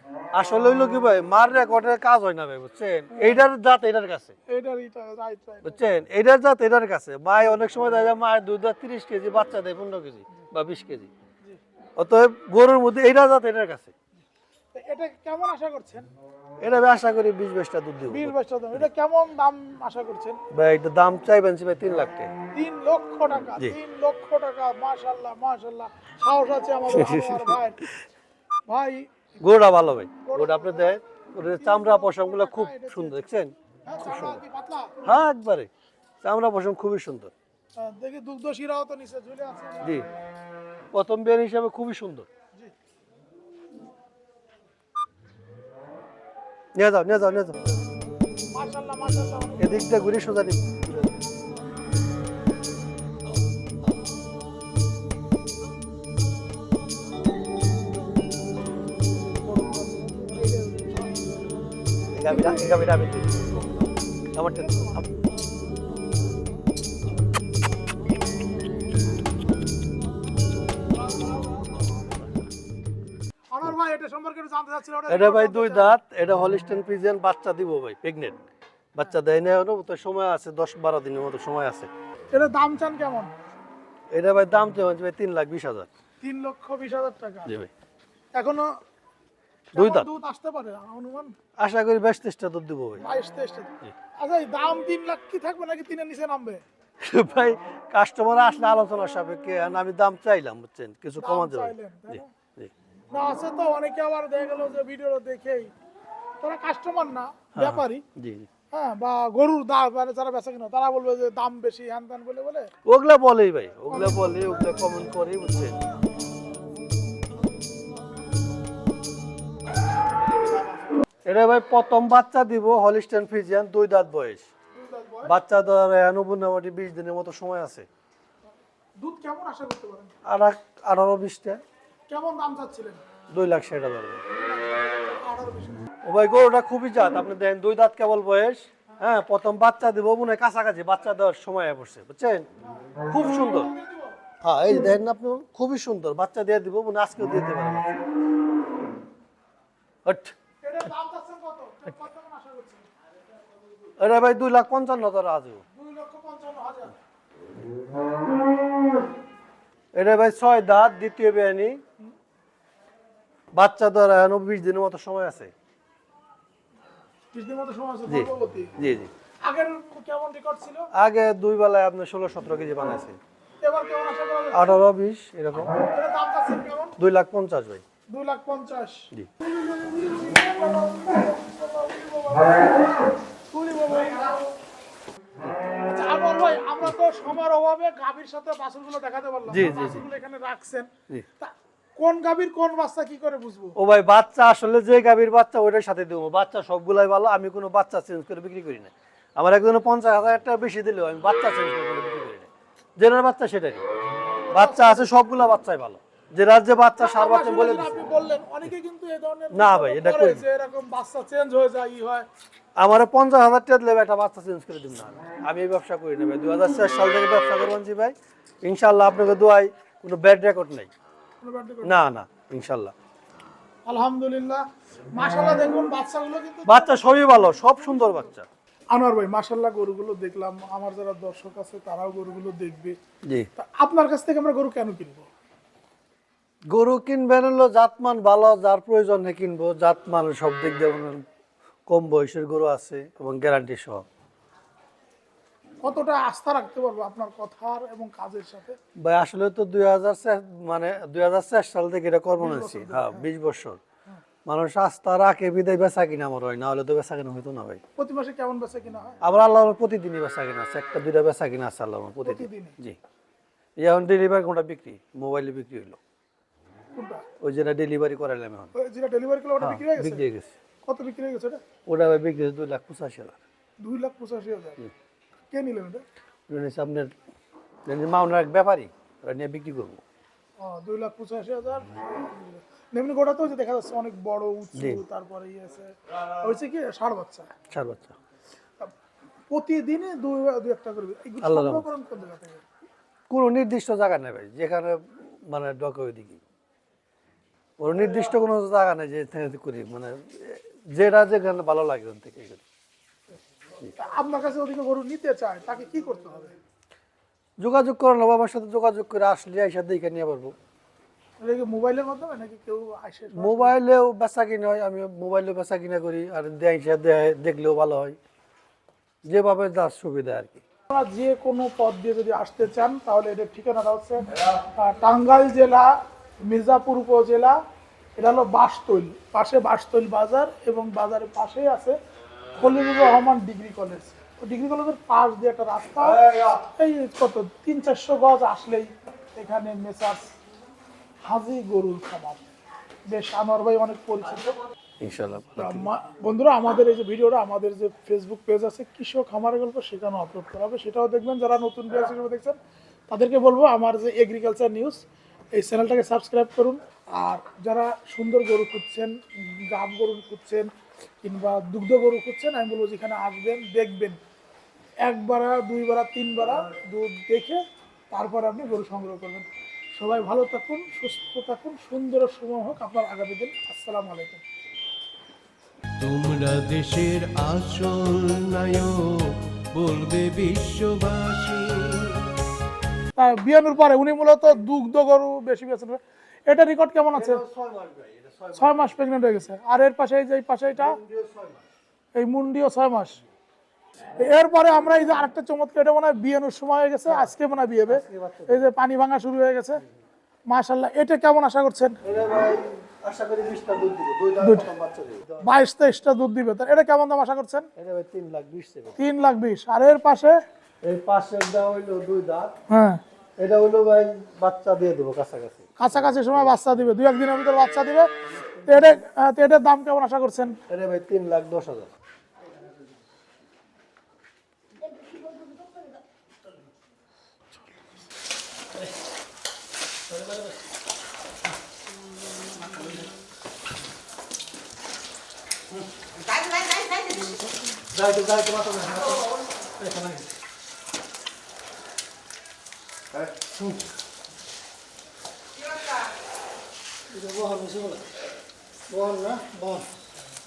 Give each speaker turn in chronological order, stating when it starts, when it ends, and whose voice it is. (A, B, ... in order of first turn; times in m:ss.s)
0:00.3-0:04.4 A
0:04.5-0:05.8 B
0:05.6-0:11.1 A
0:12.0-0:13.9 A
0:14.7-0:16.1 B
0:16.6-0:18.9 A
0:18.1-0:20.4 B
0:20.5-0:22.3 A
0:22.5-0:27.8 B
0:26.9-0:27.6 A
0:28.7-0:29.1 B
0:29.4-0:34.4 A
0:30.2-0:31.0 B
0:31.5-0:33.3 B
0:33.9-0:34.9 B
0:35.0-0:35.7 A
0:36.2-0:37.3 A
0:37.8-0:40.0 B
0:40.9-0:42.3 A
0:46.8-0:47.7 A
0:48.5-0:50.2 B
0:49.6-0:51.2 A
0:59.3-1:01.2 B
1:02.1-1:03.5 A
1:02.2-1:02.7 B
1:03.5-1:03.9 B
1:04.3-1:05.0 A
1:04.4-1:05.0 B
1:10.9-1:12.3 B
1:13.5-1:15.9 B
1:15.1-1:18.4 A
1:18.9-1:21.9 A
1:22.3-1:23.3 B
1:24.1-1:25.9 A
1:26.2-1:27.5 B
1:28.4-1:28.6 B
1:29.7-1:30.1 A
1:29.7-1:31.3 B
1:31.6-1:33.0 A
1:33.0-1:36.6 B
1:37.0-1:42.7 A
1:41.2-1:42.3 B
1:43.1-1:45.7 B
1:46.4-1:48.0 B
1:47.6-1:48.5 A
1:48.7-1:52.7 B
1:52.9-1:55.8 A
1:53.9-1:54.3 B
2:01.2-2:04.4 A
2:04.7-2:05.3 B
2:05.2-2:07.9 A
2:09.0-2:10.1 B
2:10.2-2:11.6 A
2:12.1-2:13.0 B
2:13.3-2:14.2 A
2:14.4-2:15.8 B
2:16.0-2:22.4 A
2:22.6-2:24.1 B
2:23.1-2:23.7 A
2:24.4-2:28.0 A
2:30.0-2:30.4 A
2:30.6-2:32.9 B
2:34.0-2:35.6 A
2:35.7-2:36.9 B
2:39.9-2:41.8 A
2:43.5-2:45.5 A
2:47.3-2:48.7 B
2:48.1-2:49.1 A
2:49.4-2:50.9 B
2:51.0-2:53.2 A
2:53.6-2:54.8 B
2:54.5-2:55.7 A
2:55.8-2:57.0 B
2:57.0-2:57.8 A
2:58.1-2:59.0 B
2:59.7-3:02.8 B
3:03.5-3:04.5 B
3:05.9-3:10.9 B
3:09.5-3:10.0 A
3:11.4-3:13.8 B
3:13.8-3:23.8 A
3:24.5-3:25.1 B
3:24.5-3:28.0 A
3:27.0-3:32.2 B
3:29.5-3:30.4 A
3:32.8-3:40.9 A
3:41.4-3:42.0 B
3:41.8-3:42.9 A
3:43.9-3:46.9 B
3:46.6-3:48.5 A
3:48.9-3:52.9 B
3:53.6-3:55.3 B
3:56.7-4:01.2 A
4:01.9-4:04.0 A
4:05.8-4:08.8 B
4:09.0-4:13.8 A
4:12.4-4:13.2 B
4:14.4-4:17.8 A
4:18.0-4:19.2 B
4:19.2-4:23.0 A
4:22.2-4:22.8 B
4:23.8-4:26.0 A
4:26.9-4:27.2 B
4:27.4-4:28.7 A
4:28.7-4:30.2 B
4:29.6-4:30.5 A
4:30.8-4:31.6 B
4:31.9-4:33.4 A
4:33.8-4:34.8 B
4:35.5-4:36.0 B
4:36.5-4:37.1 A
4:37.9-4:40.0 A
4:40.6-4:47.5 B
4:44.8-4:45.0 A
4:47.7-4:48.1 A
4:49.5-4:52.6 B
4:51.4-4:51.9 A
4:53.3-4:56.4 A
4:57.8-5:02.6 A
5:04.0-5:06.5 B
5:07.6-5:10.5 A
5:11.4-5:13.8 B
5:13.3-5:18.2 A
5:19.2-5:20.6 A
5:20.9-5:25.9 B
5:26.4-5:27.6 B
5:28.2-5:32.0 B
5:32.6-5:40.3 B
5:41.2-5:42.4 B
5:43.1-5:44.6 B
5:45.0-5:45.9 A
5:45.6-5:52.6 B
5:53.1-5:55.0 B
5:55.5-6:00.7 B
6:01.2-6:04.2 B
6:05.0-6:14.4 B
6:16.0-6:22.2 C
6:23.2-6:27.4 B
6:27.1-6:29.0 A
6:28.6-6:31.0 B
6:30.8-6:31.6 A
6:32.2-6:33.2 B
6:34.2-6:39.8 B
6:37.9-6:38.7 A
6:40.5-6:42.0 B
6:42.0-6:45.4 A
6:44.4-6:44.7 B
6:45.4-6:47.7 B
6:47.8-6:49.0 A
6:49.0-6:50.4 B
6:50.8-6:52.5 A
6:52.7-6:53.0 B
6:53.4-6:56.5 A
6:55.8-6:58.1 B
6:58.6-7:00.6 B
7:00.7-7:01.9 A
7:17.0-7:20.3 A
7:27.1-7:28.1 A
7:28.9-7:29.9 A